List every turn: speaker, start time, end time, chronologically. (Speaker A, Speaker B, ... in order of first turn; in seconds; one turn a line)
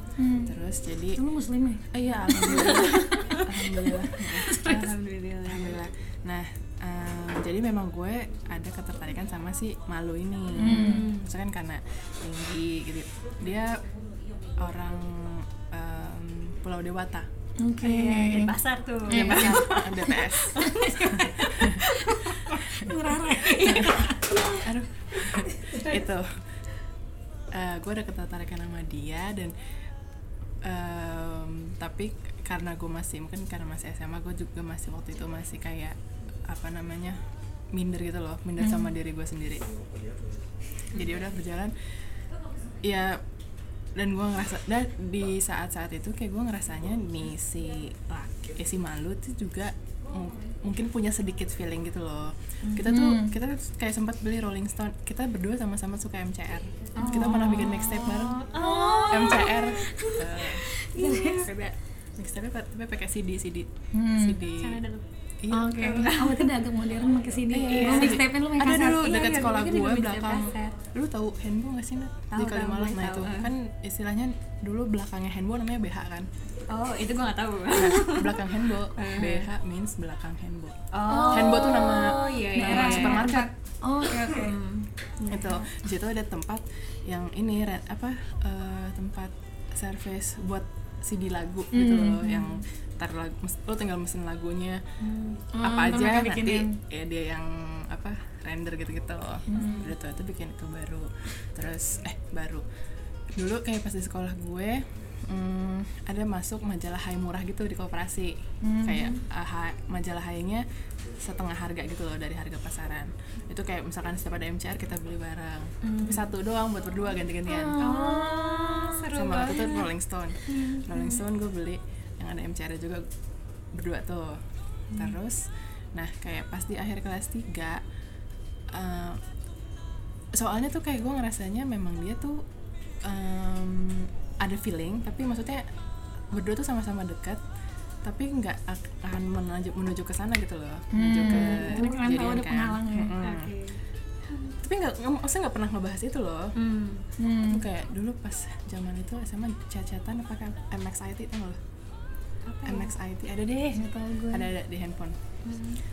Speaker A: 0.2-0.5
Speaker B: 0.4-1.2
Speaker A: 1.1-2.9
Speaker B: 1.9-13.8
Speaker C: 2.4-3.4
Speaker A: 4.3-4.8
Speaker C: 4.5-5.8
Speaker A: 10.6-11.1
Speaker C: 10.6-11.3
Speaker B: 14.6-17.3
Speaker A: 17.6-18.6
Speaker C: 17.8-22.6
Speaker B: 19.1-21.8
Speaker A: 19.1-24.6
Speaker C: 23.4-23.9
Speaker B: 23.6-26.4
Speaker A: 25.4-25.9
Speaker B: 27.5-29.5
Speaker B: 30.6-39.7
Speaker A: 38.6-38.9
Speaker B: 40.9-41.8
Speaker C: 40.9-41.2
Speaker B: 42.8-43.2
Speaker B: 43.9-58.5
Speaker C: 52.6-52.9
Speaker A: 52.9-53.4
Speaker C: 57.0-61.8
Speaker A: 57.1-57.6
Speaker A: 58.5-61.5
Speaker B: 59.1-60.6
Speaker B: 62.2-64.8
Speaker A: 63.9-64.4
Speaker C: 64.5-65.0
Speaker B: 65.4-66.1
Speaker A: 65.5-69.1
Speaker C: 65.8-66.5
Speaker B: 67.5-76.3
Speaker C: 67.7-70.8
Speaker C: 72.3-73.5
Speaker C: 76.7-79.5
Speaker B: 77.7-83.5
Speaker C: 80.9-83.4
Speaker A: 81.0-84.6
Speaker C: 84.1-84.9
Speaker B: 85.3-94.8
Speaker A: 91.7-92.6
Speaker C: 95.0-95.4
Speaker A: 95.5-96.7
Speaker B: 95.6-102.6
Speaker A: 99.5-99.9
Speaker B: 103.3-110.6
Speaker A: 108.6-109.2
Speaker B: 111.2-117.8
Speaker A: 117.5-119.1
Speaker C: 117.8-119.9
Speaker B: 119.1-123.0
Speaker C: 120.5-121.2
Speaker B: 123.7-127.8
Speaker B: 128.7-129.2
Speaker B: 130.3-132.4
Speaker B: 133.0-135.7
Speaker B: 136.3-137.4
Speaker B: 138.0-143.5
Speaker A: 140.9-143.1
Speaker C: 141.2-142.0
Speaker C: 143.2-143.8
Speaker B: 144.6-146.6
Speaker C: 146.6-147.1
Speaker A: 147.2-147.6
Speaker B: 147.5-151.6
Speaker C: 152.4-152.9
Speaker B: 152.7-155.2
Speaker A: 153.7-154.5
Speaker C: 155.4-155.8